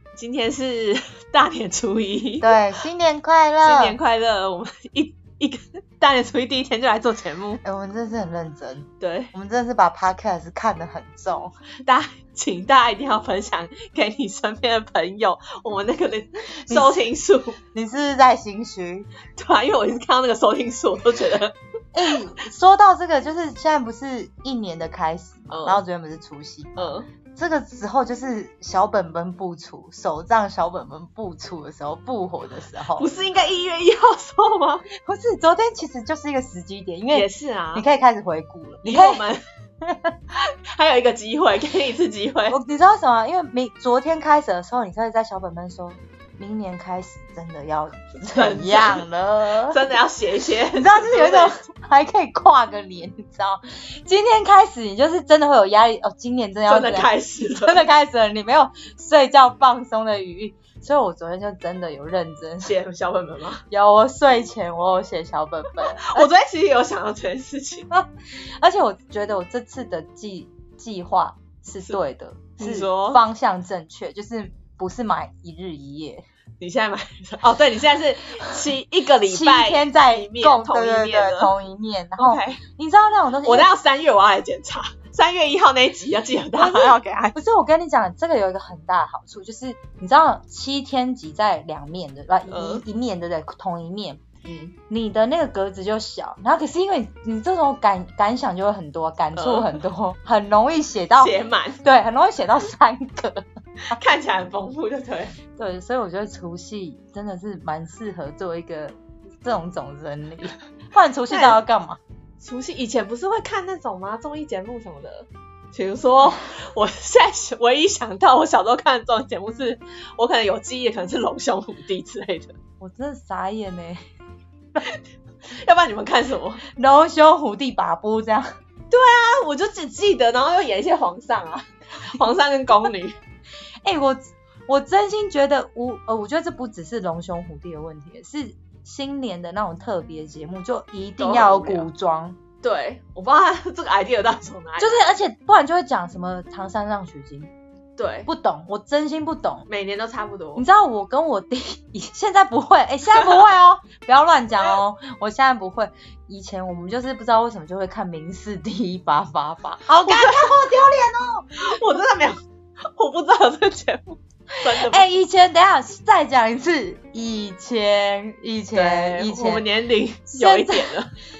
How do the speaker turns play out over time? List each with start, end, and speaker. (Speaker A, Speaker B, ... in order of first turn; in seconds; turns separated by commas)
Speaker A: 0.2-2.6, Speaker B: 2.4-4.0, Speaker A: 3.6-7.6, Speaker B: 7.6-11.6, Speaker A: 9.0-9.3, Speaker A: 11.8-17.6, Speaker B: 16.7-17.1, Speaker B: 17.7-19.1, Speaker A: 19.4-21.5, Speaker B: 21.9-33.1, Speaker A: 25.5-25.8, Speaker A: 26.8-27.1, Speaker A: 32.9-34.8, Speaker B: 34.9-39.2, Speaker A: 37.1-37.8, Speaker A: 38.8-39.4, Speaker B: 39.8-40.1, Speaker A: 40.3-42.5, Speaker B: 42.5-49.9, Speaker A: 48.3-51.6, Speaker B: 50.7-62.8, Speaker A: 56.7-57.8, Speaker A: 62.6-63.6, Speaker B: 63.7-66.3, Speaker A: 65.7-67.9, Speaker B: 67.9-76.2, Speaker A: 72.6-73.2, Speaker A: 76.6-81.5, Speaker B: 79.2-83.7, Speaker A: 82.2-82.6, Speaker A: 83.4-87.3, Speaker B: 86.5-94.2, Speaker A: 92.5-92.8, Speaker A: 94.4-94.7, Speaker B: 94.9-103.4, Speaker A: 99.3-99.8, Speaker A: 101.2-101.8, Speaker A: 103.9-105.3, Speaker B: 105.5-112.0, Speaker A: 111.3-111.6, Speaker A: 112.4-122.5, Speaker B: 122.8-124.0, Speaker A: 125.5-126.6, Speaker B: 126.7-128.5, Speaker A: 128.9-133.2, Speaker B: 133.8-142.4, Speaker A: 141.2-141.9, Speaker A: 142.6-145.1, Speaker B: 144.8-147.5, Speaker A: 148.0-148.3, Speaker B: 148.2-149.7, Speaker A: 149.7-150.6, Speaker B: 150.6-161.5, Speaker A: 160.0-160.8, Speaker A: 161.5-165.1, Speaker B: 164.6-169.6, Speaker A: 168.7-171.1, Speaker B: 170.3-171.0